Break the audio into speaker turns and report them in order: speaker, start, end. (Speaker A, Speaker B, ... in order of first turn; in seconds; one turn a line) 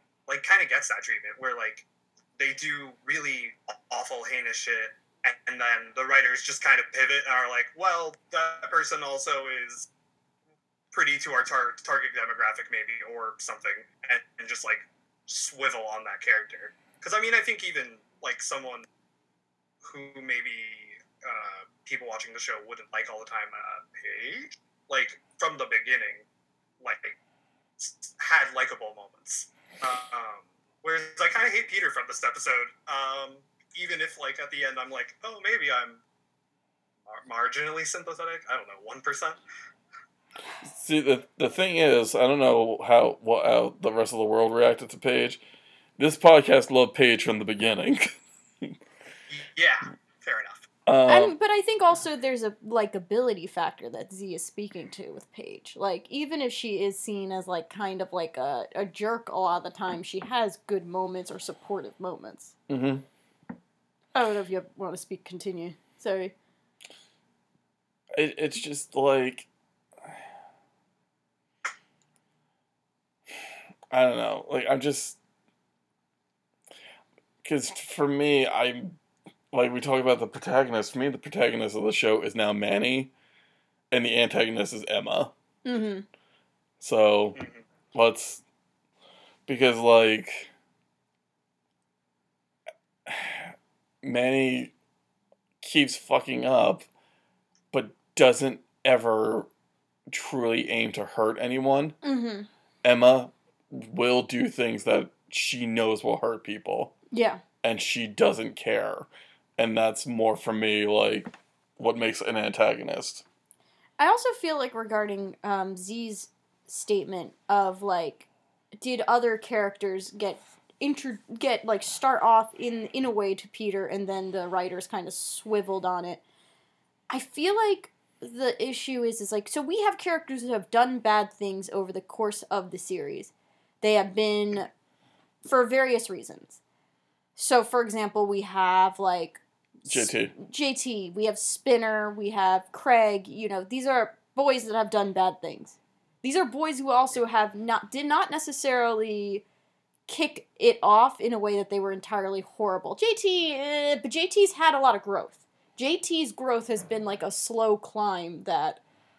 Speaker A: 0.3-1.9
Speaker A: 2.4-9.9
Speaker A: 10.9-18.9
Speaker A: 19.8-26.2
Speaker A: 26.8-27.2
Speaker A: 27.8-36.0
Speaker A: 37.1-39.4
Speaker B: 40.6-45.4
Speaker B: 46.0-48.7
Speaker A: 49.3-50.7
Speaker B: 50.9-51.3
Speaker C: 51.1-62.5
Speaker B: 62.7-63.0
Speaker C: 64.2-66.3
Speaker B: 68.2-69.5
Speaker B: 73.9-75.2
Speaker B: 77.4-79.0
Speaker B: 79.5-83.1
Speaker B: 83.9-85.3
Speaker C: 85.7-86.1
Speaker B: 86.8-87.4
Speaker A: 87.4-87.7
Speaker B: 87.9-88.4
Speaker B: 89.5-90.5
Speaker B: 93.1-94.7
Speaker B: 95.6-96.9
Speaker B: 97.7-99.5
Speaker B: 100.1-102.0
Speaker C: 102.0-102.5
Speaker B: 102.8-106.9
Speaker C: 107.1-107.4
Speaker B: 107.6-113.2
Speaker C: 114.0-118.3
Speaker C: 118.8-126.2
Speaker C: 127.1-134.7
Speaker C: 135.4-136.6
Speaker C: 137.4-149.4
Speaker B: 139.9-140.3
Speaker C: 150.1-158.8